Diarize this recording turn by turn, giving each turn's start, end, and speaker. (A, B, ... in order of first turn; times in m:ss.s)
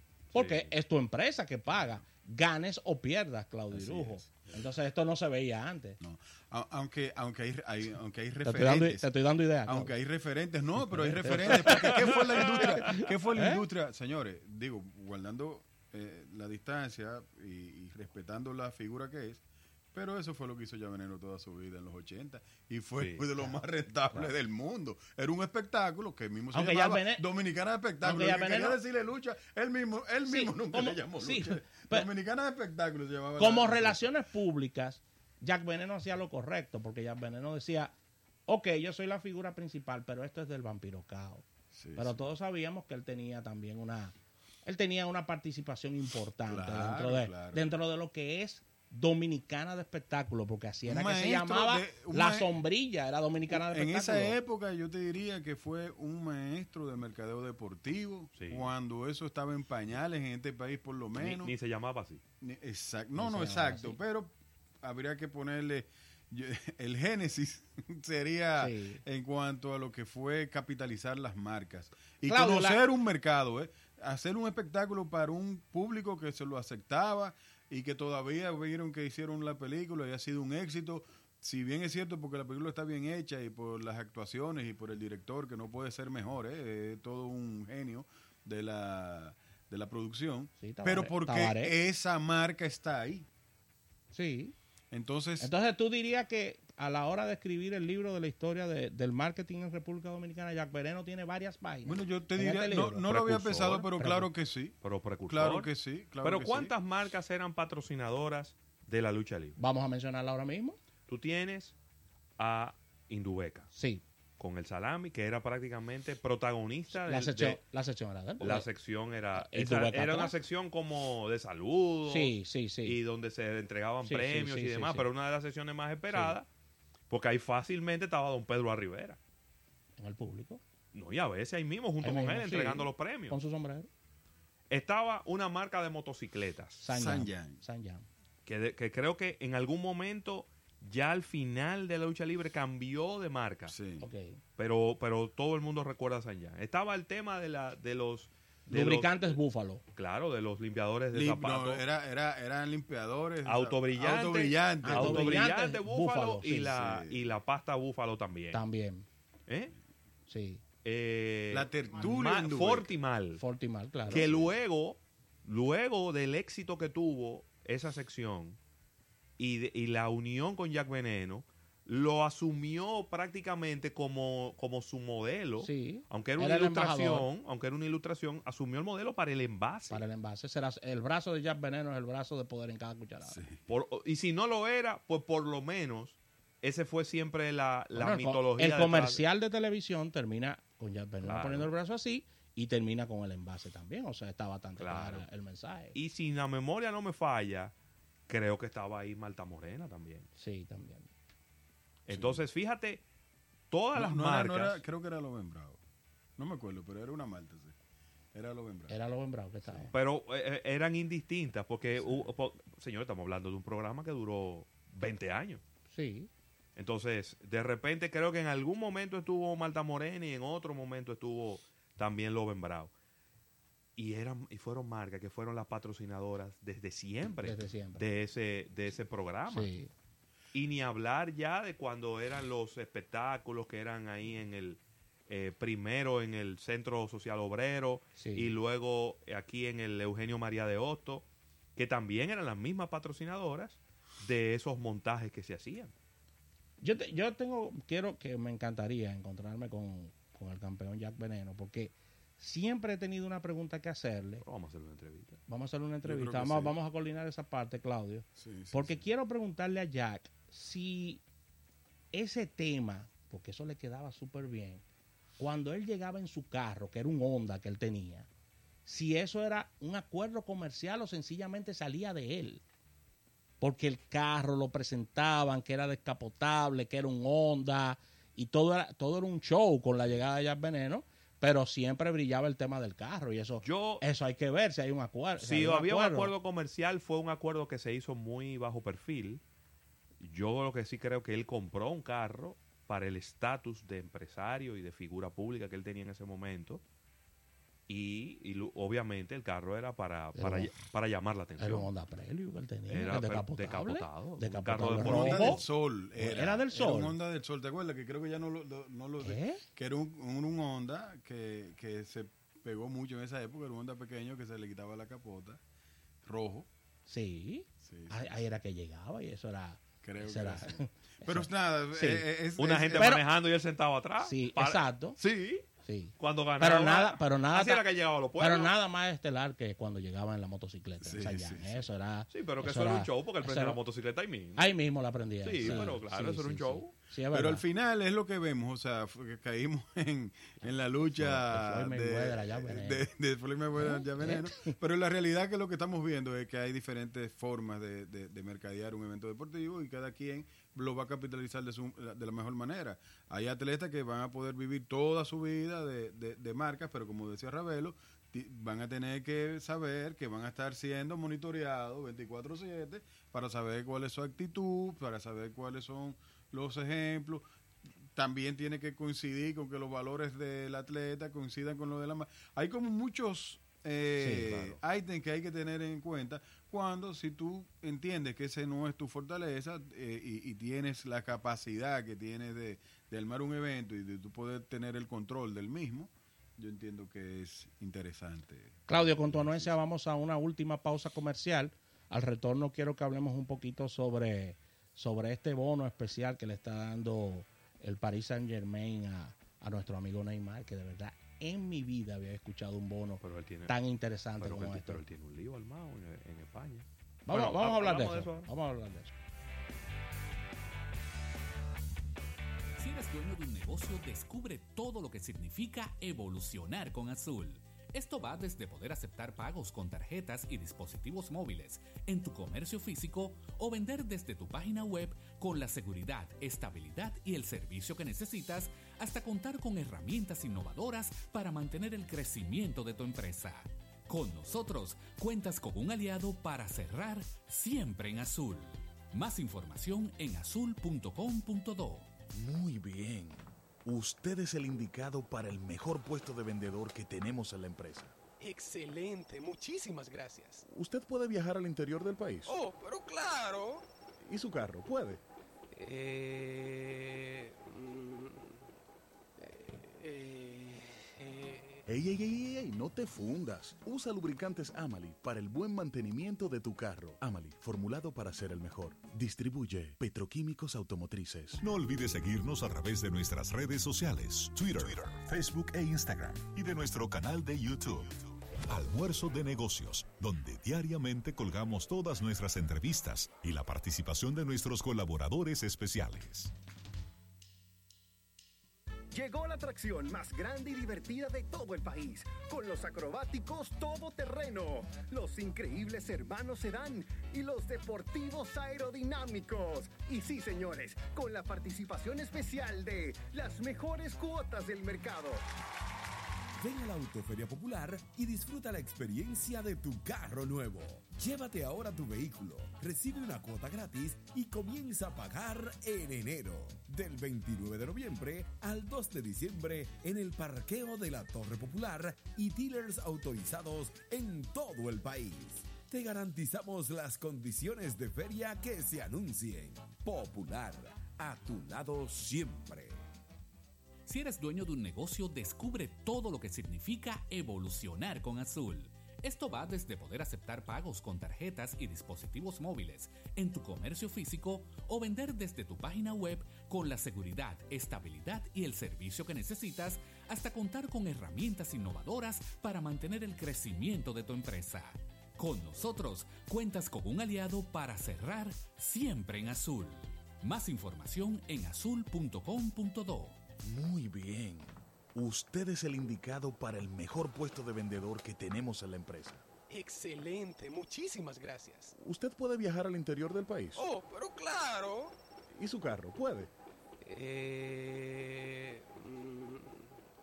0:00.3-0:06.0 A
0:00.3-0:00.7 B
0:03.7-0:04.6 C
0:06.0-0:09.1 C
0:08.4-0:09.9 A
0:09.6-0:19.4 C
0:10.9-0:13.6 A
0:19.9-0:34.0 C
0:23.0-0:23.2 B
0:26.5-0:27.2 A
0:28.0-0:28.8 A
0:30.2-0:32.1 A
0:33.4-0:37.9 A
0:38.5-0:54.3 A
0:41.7-0:42.2 C
0:46.5-0:47.6 C
0:50.8-0:52.5 C
0:53.5-1:01.5 C
0:58.4-0:58.7 B
1:01.2-1:02.2 B
1:02.4-1:33.3 C
1:03.2-1:04.0 A
1:08.6-1:09.0 A
1:12.3-1:12.8 A
1:30.6-1:31.7 A
1:34.1-1:34.5 A
1:34.9-1:35.5 C
1:35.4-1:43.1 A
1:41.8-1:44.8 C
1:43.0-1:43.9 B
1:44.0-1:44.3 A
1:44.8-1:45.7 B
1:45.3-1:46.7 C
1:46.2-1:49.6 B
1:49.6-1:50.8 A
1:51.1-1:51.7 B
1:52.4-1:53.7 B
1:53.7-1:54.0 A
1:54.4-1:57.6 B
1:56.9-1:58.7 A
1:58.4-2:06.5 B
1:59.4-2:00.3 A
2:02.1-2:03.0 A
2:04.0-2:05.1 A
2:06.1-2:06.4 A
2:07.1-2:09.2 B
2:10.0-2:10.6 A
2:10.9-2:13.4 B
2:12.0-2:13.9 A
2:14.7-2:16.8 B
2:16.8-2:18.0 A
2:16.9-2:17.6 C
2:18.4-2:23.7 B
2:23.7-2:24.1 C
2:24.0-2:24.4 A
2:24.6-2:29.4 B
2:28.7-2:29.8 A
2:29.9-2:31.8 B
2:31.1-2:35.5 C
2:33.4-2:38.6 B
2:34.8-2:36.7 A
2:36.6-2:37.4 C
2:38.5-2:39.1 A
2:39.5-2:39.7 B
2:40.3-2:40.6 A
2:40.8-2:43.4 B
2:41.5-2:42.9 C
2:43.4-2:44.3 A
2:44.1-2:48.6 B
2:44.2-2:44.5 C
2:49.4-3:00.0 B
2:55.6-2:57.2 A
2:59.9-3:03.4 A
3:03.2-3:03.6 C
3:03.7-3:09.2 B
3:07.9-3:16.0 A
3:11.2-3:11.7 B
3:14.8-3:15.2 B
3:15.9-3:17.7 B
3:18.3-3:20.3 B
3:20.4-3:21.1 A
3:22.1-3:23.0 B
3:22.1-3:22.4 C
3:23.7-3:24.8 B
3:23.9-3:25.8 C
3:26.4-3:27.7 C
3:28.3-3:29.0 C
3:28.9-3:29.9 A
3:29.6-3:29.9 C
3:29.9-3:35.6 B
3:32.0-3:32.3 C
3:35.9-3:36.3 A
3:36.8-3:42.9 B
3:44.0-3:49.7 B
3:47.4-3:48.0 A
3:49.5-3:49.9 A
3:50.5-4:01.2 B
3:58.2-3:58.5 A
4:01.8-4:05.9 B
4:06.8-4:14.4 A
4:14.4-4:15.4 B
4:15.5-4:21.2 A
4:16.0-4:16.7 C
4:18.4-4:19.0 C
4:22.1-4:24.8 A
4:25.4-4:28.3 A
4:28.8-4:32.6 A
4:33.6-4:46.3 A
4:43.6-4:44.0 B
4:45.4-4:49.4 B
4:50.2-4:56.8 B
4:57.9-5:01.9 B
5:00.4-5:00.7 A
5:01.6-5:05.6 A
5:02.9-5:05.6 B
5:04.8-5:15.6 C
5:06.2-5:07.2 A
5:09.2-5:09.6 A
5:16.2-5:16.7 C
5:17.1-5:22.2 A
5:17.8-5:18.4 C
5:20.0-5:23.2 C
5:22.6-5:25.6 B
5:23.0-5:23.2 A
5:24.2-5:25.2 A
5:25.8-5:27.8 A
5:26.2-5:28.7 B
5:28.4-5:33.8 A
5:31.0-5:31.9 C
5:32.3-5:34.7 B
5:34.6-5:37.6 A
5:35.4-5:36.9 B
5:35.6-5:36.0 C
5:37.3-6:07.4 C
5:41.2-5:43.1 A
5:43.8-5:44.7 A
6:08.1-6:29.7 C
6:14.2-6:14.7 A
6:28.9-6:45.0 A
6:43.2-6:43.7 B
6:44.4-6:48.5 B
6:47.2-6:49.1 A
6:52.8-7:22.1 D
7:22.3-7:28.1 E
7:28.4-7:30.6 F
7:30.7-7:32.5 E
7:32.4-7:33.8 F
7:34.2-7:35.2 E
7:35.7-7:38.7 F
7:39.4-7:41.8 F
7:41.9-7:51.6 E
7:51.6-8:06.5 G
8:09.1-8:25.4 H
8:26.6-8:53.0 I
8:54.1-9:23.4 D
9:23.6-9:29.4 E
9:29.7-9:31.9 F
9:32.0-9:33.8 E
9:33.8-9:35.2 F
9:35.5-9:36.5 E
9:37.0-9:40.0 F